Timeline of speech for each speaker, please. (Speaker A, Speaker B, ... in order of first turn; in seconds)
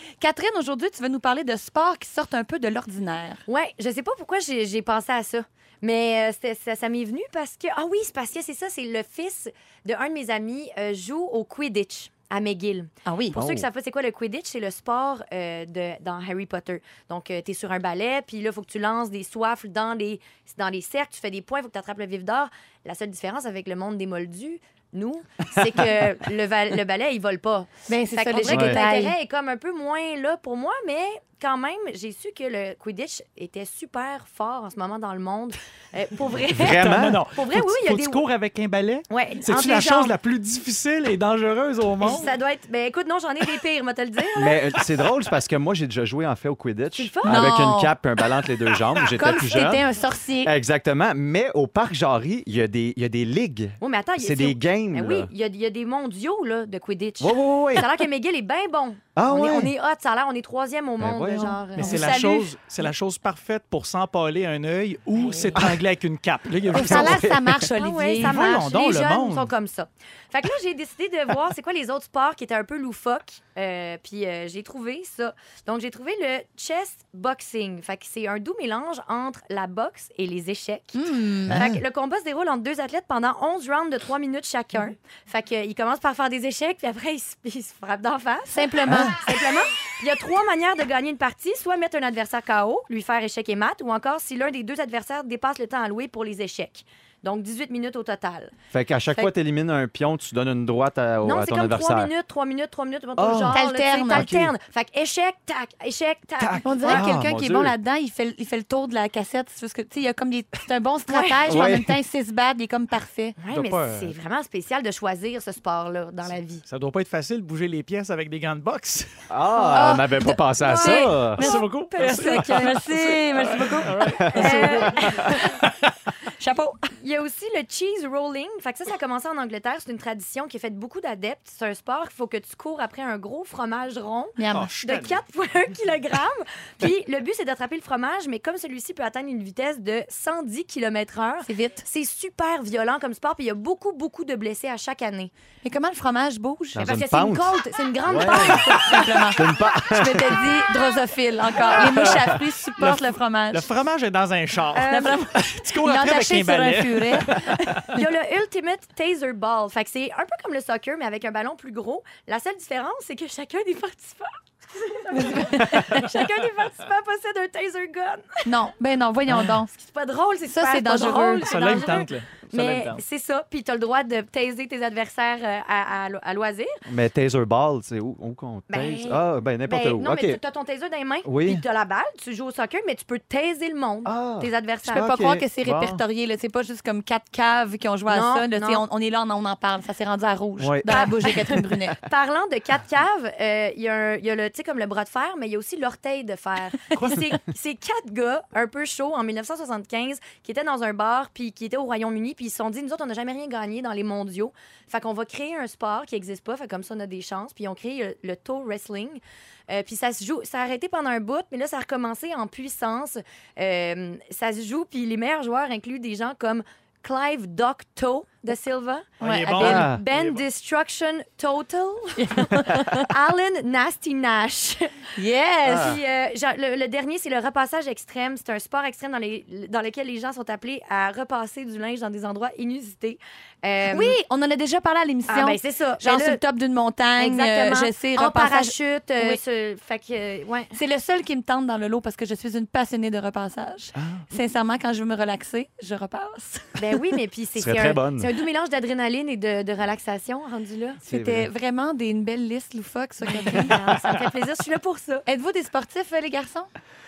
Speaker A: 0.2-3.4, 13.1-13.4, 27.9-29.1, 47.3-47.9, 49.1-50.5, 61.8-62.5, 66.8-68.4, 80.9-81.7, 88.5-89.2, 103.5-104.3, 106.6-113.4, 119.7-125.6, 126.4-126.9, 134.4-134.7, 141.4-141.8, 145.6-146.8, 148.2-153.6, 154.8-157.9, 165.1-166.2, 168.4-169.7, 170.4-172.0, 184.9-192.0, 222.2-223.1, 225.2-226.0, 233.9-239.4, 240.7-247.0, 251.0-253.8, 255.2-256.7
Speaker B: 3.5-38.2, 39.1-40.1, 42.0-44.6, 46.9-47.5, 53.8-62.0, 65.2-65.6, 67.7-98.5, 101.2-107.1, 111.1-111.7, 113.4-116.6, 124.3-125.5, 127.0-145.3, 146.8-149.3, 151.5-152.1, 154.7-155.2, 157.9-168.5, 169.7-176.8, 178.7-185.1, 188.1-188.8, 190.8-225.0, 225.6-234.2, 235.3-236.4, 237.2-240.8, 246.8-251.0, 253.2-255.2
Speaker C: 13.3-13.7, 25.6-26.0, 28.4-28.8, 36.5-37.2, 44.3-49.8, 50.4-55.3, 57.2-57.9, 59.1-59.7, 61.0-61.6, 66.7-67.6, 81.5-81.8, 88.8-89.2, 98.7-102.1, 103.2-103.6, 104.1-104.5, 106.4-107.7, 111.5-111.9, 119.3-121.5, 124.2-124.6, 146.7-150.6, 176.8-180.4, 181.2-181.6, 184.0-186.0, 190.6-191.1, 219.6-220.0, 225.7-226.0, 243.9-244.2, 247.6-248.3, 251.1-251.5
Speaker D: 36.6-42.3, 61.7-67.2, 68.2-69.5, 113.5-114.2, 116.7-119.1, 121.3-124.9, 134.5-135.2, 151.8-152.2, 152.8-158.0, 171.1-173.0, 219.2-220.4